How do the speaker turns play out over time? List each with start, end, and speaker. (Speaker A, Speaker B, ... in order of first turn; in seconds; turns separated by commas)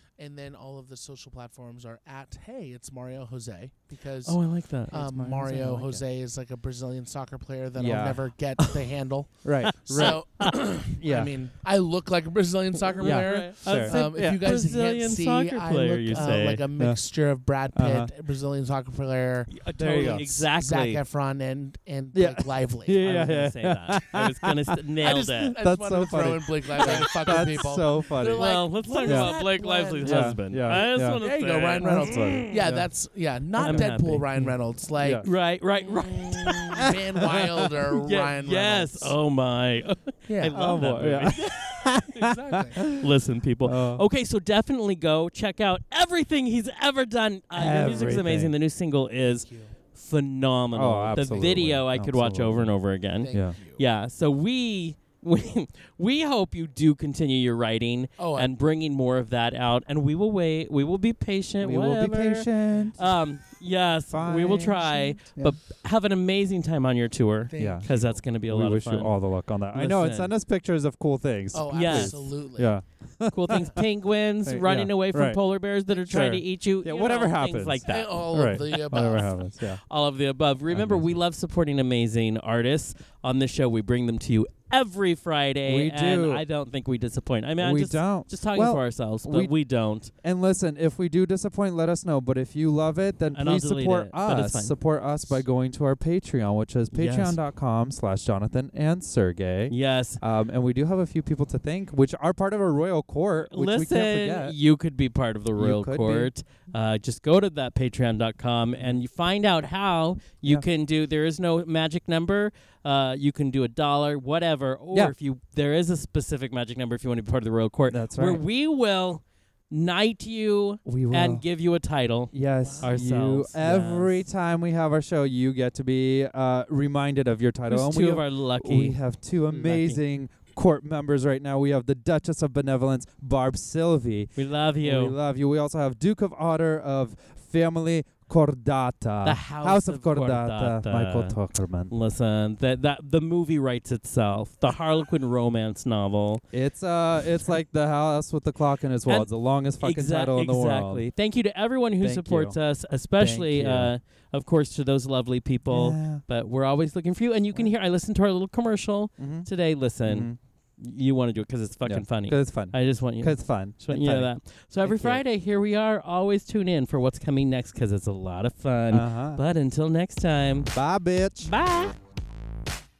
Speaker A: 0.2-23.1, Speaker B: 4.2-4.9, Speaker C: 4.9-6.0, Speaker C: 7.8-8.2, Speaker C: 9.4-11.3, Speaker B: 9.6-10.5, Speaker B: 12.9-16.6, Speaker C: 13.0-14.4, Speaker C: 17.7-18.1, Speaker B: 19.5-21.0, Speaker C: 19.7-20.4, Speaker C: 22.1-28.5, Speaker B: 23.0-25.6, Speaker A: 25.0-39.2, Speaker B: 26.8-27.5, Speaker B: 28.3-32.6, Speaker C: 29.0-29.4, Speaker C: 30.0-31.2, Speaker C: 31.8-32.9, Speaker B: 33.6-34.4, Speaker C: 33.7-35.3, Speaker B: 35.2-36.9, Speaker C: 36.8-37.7, Speaker B: 37.9-42.1, Speaker A: 40.3-40.7, Speaker C: 40.5-43.1, Speaker A: 41.9-42.9, Speaker B: 42.8-69.2, Speaker C: 43.6-44.0, Speaker C: 47.5-48.5, Speaker A: 49.4-49.7, Speaker C: 50.7-52.7, Speaker A: 53.2-53.8, Speaker C: 53.3-53.5, Speaker A: 58.2-58.5, Speaker C: 61.6-63.0, Speaker A: 62.7-63.1, Speaker C: 64.1-65.6, Speaker A: 67.5-68.2, Speaker C: 67.5-67.9, Speaker C: 68.5-73.8, Speaker B: 69.7-70.3, Speaker A: 71.5-72.8, Speaker B: 71.7-72.2, Speaker B: 73.3-78.2, Speaker C: 74.4-79.8, Speaker A: 77.9-79.4, Speaker B: 79.6-90.1, Speaker C: 80.7-81.1, Speaker C: 85.7-86.4, Speaker C: 87.6-89.5, Speaker C: 90.1-104.6, Speaker B: 93.3-95.4, Speaker B: 96.9-97.4, Speaker B: 99.7-100.2, Speaker B: 103.5-124.2, Speaker C: 105.6-106.3, Speaker C: 117.9-118.4, Speaker C: 120.8-121.4, Speaker C: 122.3-141.9, Speaker A: 122.6-123.0, Speaker B: 127.7-130.0, Speaker B: 134.4-135.1, Speaker B: 139.2-146.4, Speaker C: 146.5-151.1, Speaker B: 149.1-170.7, Speaker C: 152.0-152.6, Speaker C: 153.2-153.9, Speaker C: 155.7-156.2, Speaker C: 159.2-159.5, Speaker C: 160.0-160.4, Speaker C: 161.8-165.2, Speaker C: 168.9-169.4, Speaker C: 170.7-171.5, Speaker B: 171.4-171.9